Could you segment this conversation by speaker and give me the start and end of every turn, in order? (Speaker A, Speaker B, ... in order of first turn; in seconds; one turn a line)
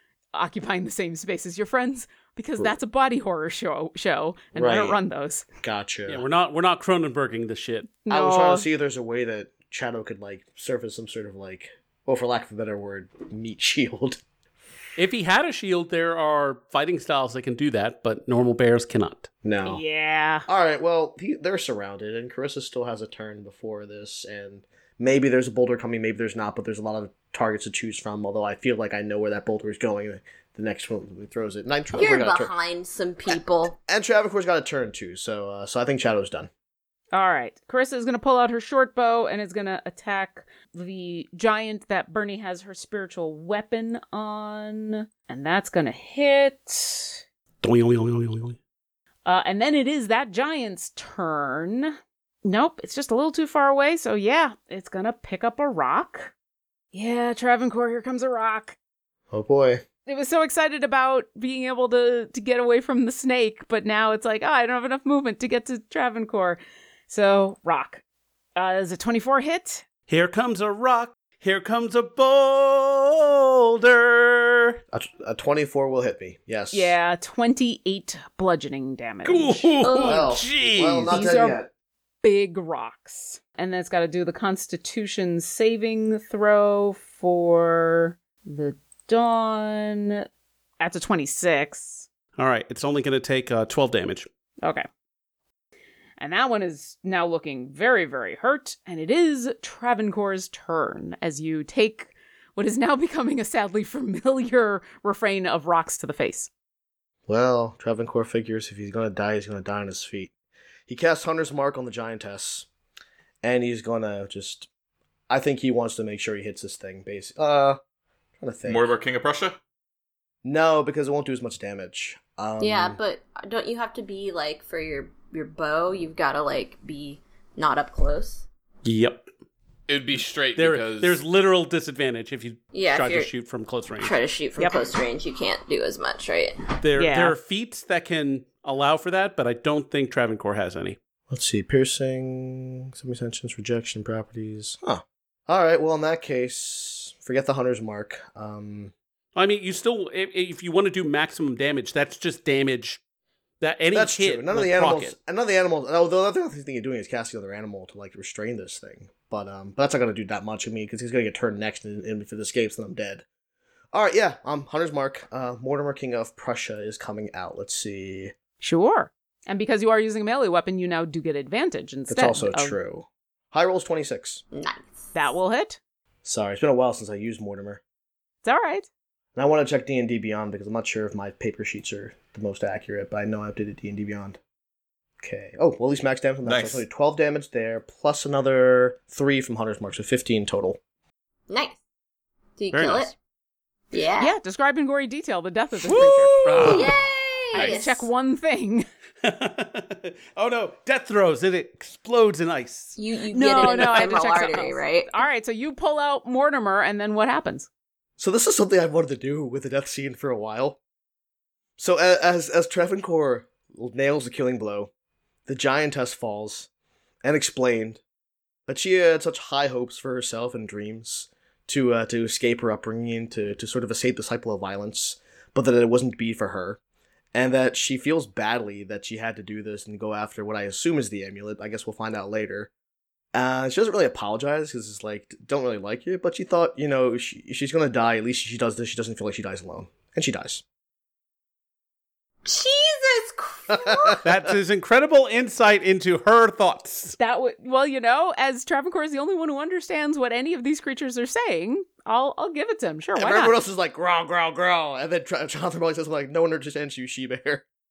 Speaker A: 0.3-5.5
Speaker B: 4.5-5.0
Speaker B: 5.6-6.2
Speaker C: 6.1-7.9
Speaker A: 8.0-8.7
Speaker B: 8.1-14.2
Speaker C: 15.0-19.3
Speaker B: 19.4-19.8
Speaker A: 19.6-20.5
Speaker B: 20.5-32.5
Speaker D: 31.9-33.7
Speaker B: 33.8-36.5
Speaker A: 37.1-47.2
Speaker C: 47.6-48.6
Speaker A: 49.2-51.9
Speaker A: 52.4-56.3
Speaker A: 56.9-58.8
Speaker B: 59.3-59.8
Speaker A: 60.0-68.0
Speaker A: 68.5-69.8
Speaker C: 70.1-74.8
Speaker B: 74.9-76.9
Speaker A: 76.7-79.8
Speaker C: 79.2-81.2
Speaker D: 79.8-80.2
Speaker B: 80.0-81.7
Speaker A: 81.1-81.6
Speaker A: 82.2-90.2
Speaker A: 90.8-92.0
Speaker C: 92.4-94.3
Speaker A: 96.2-106.5
Speaker B: 107.3-110.3
Speaker B: 110.9-112.7
Speaker B: 113.4-114.7
Speaker B: 115.3-117.8
Speaker B: 118.4-118.9
Speaker E: 118.7-119.6
Speaker B: 120.4-123.0
Speaker D: 122.6-128.4
Speaker C: 128.8-129.3
Speaker E: 129.9-131.2
Speaker C: 130.6-134.1
Speaker D: 132.7-133.3
Speaker D: 134.0-136.6
Speaker C: 136.8-141.0
Speaker A: 136.9-137.4
Speaker B: 141.3-148.9
Speaker C: 149.3-153.0
Speaker C: 153.6-155.1
Speaker B: 153.9-163.2
Speaker B: 163.9-168.3
Speaker A: 168.6-172.8
Speaker B: 172.1-174.4
Speaker D: 174.5-175.1
Speaker A: 175.1-175.8
Speaker B: 176.2-177.8
Speaker A: 178.4-178.9
Speaker B: 179.3-184.4
Speaker B: 185.2-190.8
Speaker E: 186.4-186.8
Speaker D: 191.5-191.8
Speaker D: 192.6-193.1
Speaker C: 192.7-193.1
Speaker D: 193.9-194.3
Speaker A: 194.2-196.9
Speaker C: 195.9-196.9
Speaker E: 196.5-196.9
Speaker D: 196.6-198.1
Speaker C: 197.5-197.8
Speaker A: 197.6-198.8
Speaker C: 199.2-203.0
Speaker D: 203.0-205.2
Speaker A: 203.3-207.7
Speaker C: 203.6-204.5
Speaker B: 208.2-210.8
Speaker B: 211.8-214.9
Speaker B: 215.4-216.7
Speaker B: 217.2-218.0
Speaker B: 218.7-226.8
Speaker B: 227.3-232.7
Speaker B: 233.3-240.6
Speaker D: 242.4-244.2
Speaker B: 243.7-244.2
Speaker C: 244.2-247.2
Speaker A: 247.2-253.5
Speaker B: 253.2-257.6